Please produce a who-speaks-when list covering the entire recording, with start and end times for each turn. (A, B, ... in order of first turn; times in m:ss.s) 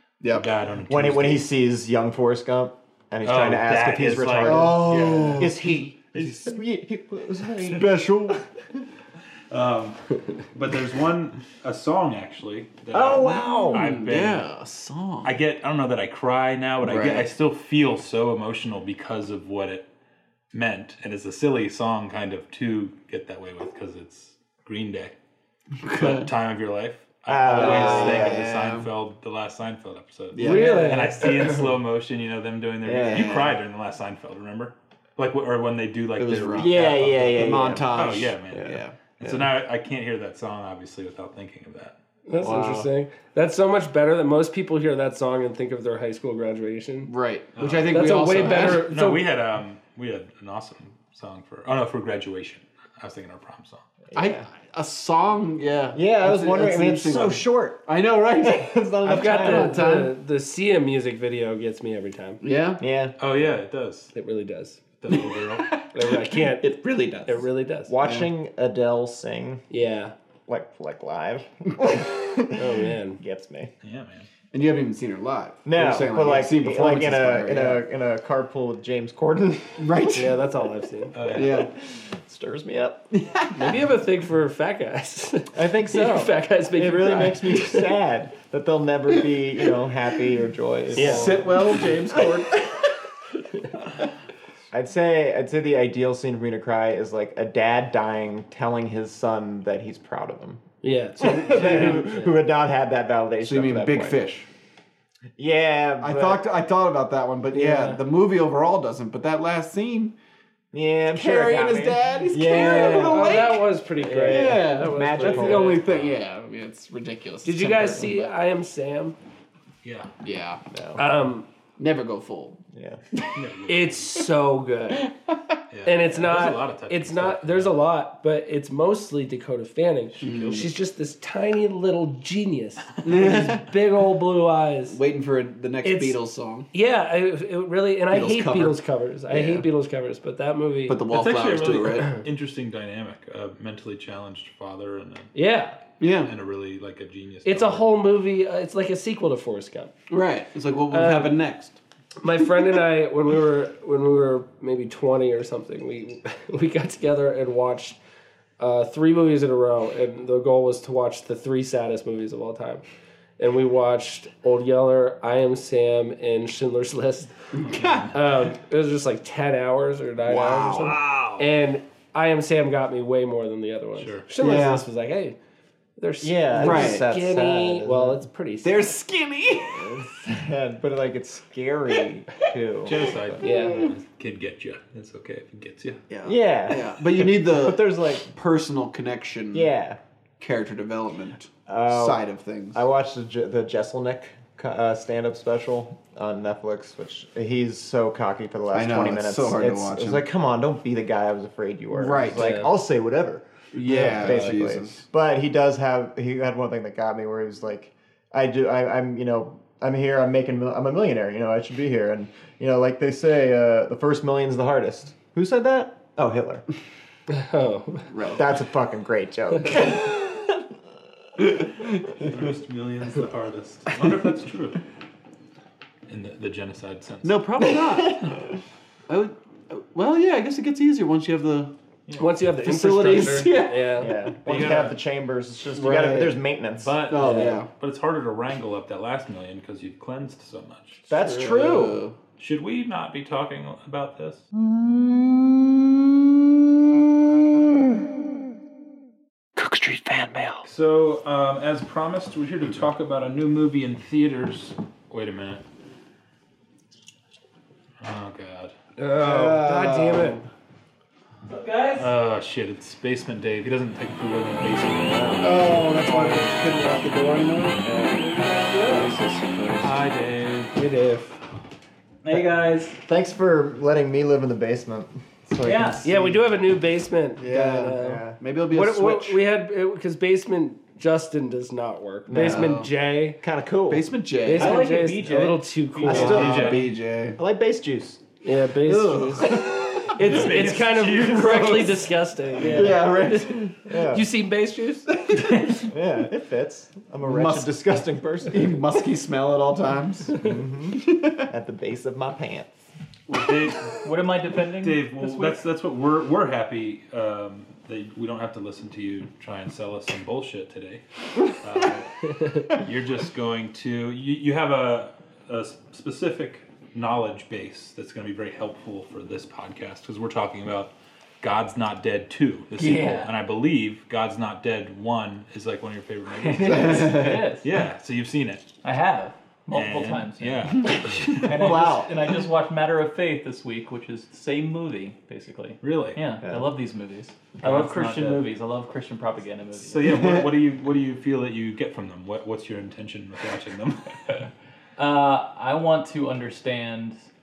0:00.2-0:00.5 A
0:00.3-0:01.5 B
0:00.9-0:08.4 C
0:03.2-0:05.5 B
0:04.4-0:06.3 A
0:07.6-0:08.4 A
0:09.5-0:14.5 B
0:12.9-0:13.9 C
0:13.6-0:15.4 A
0:15.2-0:19.8 B
0:16.8-0:17.3 A
0:20.5-0:25.1 B
0:25.8-0:26.3 A
0:25.9-0:41.9 B
0:27.3-0:28.5 C
0:27.5-0:28.9 A
0:30.3-0:31.1 A
0:30.4-0:31.4 D
0:32.8-0:33.4 C
0:32.9-0:33.6 A
0:36.2-0:39.0 A
0:36.6-0:39.4 C
0:42.2-0:47.1 D
0:42.4-0:42.9 C
0:47.0-0:48.9 A
0:47.6-0:53.8 B
0:47.9-0:49.2 D
0:54.1-0:54.4 C
0:54.1-1:00.1 A
0:55.9-0:59.9 C
0:59.1-1:02.4 D
1:02.4-1:02.8 A
1:02.8-1:03.2 C
1:03.2-1:04.1 B
1:04.1-1:04.8 D
1:05.0-1:05.8 B
1:05.8-1:07.5 A
1:05.9-1:06.7 D
1:07.2-1:07.9 D
1:07.9-1:09.6 C
1:08.0-1:08.3 A
1:09.7-1:10.1 D
1:10.5-1:13.7 C
1:12.6-1:13.2 D
1:13.8-1:14.3 B
1:14.5-1:17.8 A
1:15.6-1:20.1 C
1:19.8-1:20.3 A
1:20.1-1:21.2 D
1:21.1-1:21.6 B
1:21.3-1:21.7 A
1:21.3-1:23.3 C
1:23.4-1:23.7 A
1:23.5-1:27.9 D
1:25.5-1:31.8 C
1:30.9-1:31.3 D
1:31.0-1:32.7 A
1:34.7-1:40.6 C
1:40.8-1:42.3 D
1:41.2-1:44.2 C
1:41.5-1:42.0 A
1:43.4-1:44.5 A
1:45.4-1:46.4 C
1:46.0-1:50.1 A
1:47.5-1:48.0 D
1:50.7-1:55.8 C
1:51.1-1:58.3 A
1:53.0-1:55.8 D
1:55.8-1:56.2 B
1:57.4-1:59.2 D
1:59.8-2:00.1 B
2:00.2-2:00.6 A
2:00.7-2:01.0 C
2:01.0-2:01.4 D
2:01.8-2:02.6 A
2:02.7-2:03.0 C
2:03.3-2:04.1 B
2:03.7-2:05.1 D
2:05.7-2:07.8 B
2:05.8-2:15.0 D
2:10.2-2:10.6 B
2:10.2-2:10.7 A
2:13.0-2:13.6 A
2:14.9-2:16.7 A
2:15.8-2:16.2 D
2:16.7-2:21.0 D
2:18.1-2:19.7 A
2:20.9-2:22.2 A
2:21.1-2:25.3 B
2:25.3-2:25.8 D
2:26.0-2:26.3 A
2:26.2-2:27.8 B
2:27.4-2:29.9 D
2:30.1-2:31.8 A
2:30.9-2:31.4 D
2:32.2-2:38.0 D
2:38.6-2:42.8 D
2:43.4-2:47.3 D
2:47.5-2:48.1 A
2:47.7-2:48.2 B
2:48.1-2:55.4 D
2:50.2-2:51.0 A
2:50.8-2:51.4 B
2:54.0-2:54.2 B
2:54.4-2:54.8 A
2:56.0-2:59.0 D
2:56.2-2:58.2 C
2:56.6-2:57.0 A
2:58.6-3:00.1 A
2:59.7-3:03.6 C
3:02.8-3:06.0 B
3:03.4-3:03.8 D
3:06.1-3:09.7 A
3:06.2-3:08.3 C
3:09.5-3:10.0 C
3:10.4-3:12.8 A
3:11.7-3:36.6 C
3:18.7-3:20.2 A
3:21.9-3:22.6 A
3:22.3-3:22.7 D
3:23.7-3:25.0 A
3:23.9-3:24.5 D
3:37.3-3:38.1 D
3:38.1-3:38.4 A
3:38.3-3:40.6 C
3:42.2-3:44.8 B
3:46.1-3:47.4 B
3:47.2-3:48.2 A
3:47.7-3:48.2 C
3:49.1-3:51.7 A
3:52.1-3:52.3 B
3:52.2-3:54.1 D
3:52.6-3:54.1 A
3:54.0-3:57.0 C
3:54.4-3:55.0 B
3:55.7-3:56.4 A
3:56.8-4:01.0 B
3:57.0-3:57.7 A
3:57.2-3:57.6 D
4:01.1-4:02.0 C
4:01.1-4:02.2 A
4:02.4-4:04.4 B
4:10.6-4:15.6 B
4:18.0-4:18.7 B
4:19.0-4:20.4 D
4:19.2-4:20.5 A
4:21.5-4:22.1 E
4:22.0-4:25.6 B
4:25.4-4:29.9 A
4:28.4-4:29.1 E
4:29.8-4:30.8 B
4:30.7-4:31.4 D
4:32.2-4:33.0 E
4:33.0-4:36.4 C
4:35.6-4:36.0 E
4:36.0-4:43.4 D
4:37.4-4:39.4 A
4:38.0-4:38.4 C
4:42.3-4:42.8 C
4:42.3-4:42.9 A
4:43.4-4:44.1 C
4:43.9-4:44.9 A
4:44.4-4:46.5 D
4:44.5-4:46.9 E
4:46.0-4:48.2 C
4:46.1-4:47.4 A
4:46.3-4:46.8 B
4:48.4-4:55.1 D
4:48.8-4:50.3 A
4:50.2-4:52.0 B
4:52.6-4:53.7 A
4:53.6-4:54.3 C
4:55.9-4:58.8 C
4:57.2-4:57.7 A
4:58.5-5:01.4 A
5:00.4-5:02.7 C
5:03.3-5:04.0 B
5:04.0-5:05.6 E
5:04.6-5:28.7 B
5:22.8-5:23.3 E
5:26.4-5:27.7 E
5:26.6-5:27.4 A
5:28.8-5:40.4 E
5:29.7-5:31.8 B
5:31.6-5:32.0 C
5:31.6-5:32.1 A
5:35.8-5:36.2 B
5:37.6-5:38.4 B
5:39.8-5:44.5 B
5:45.0-5:47.2 E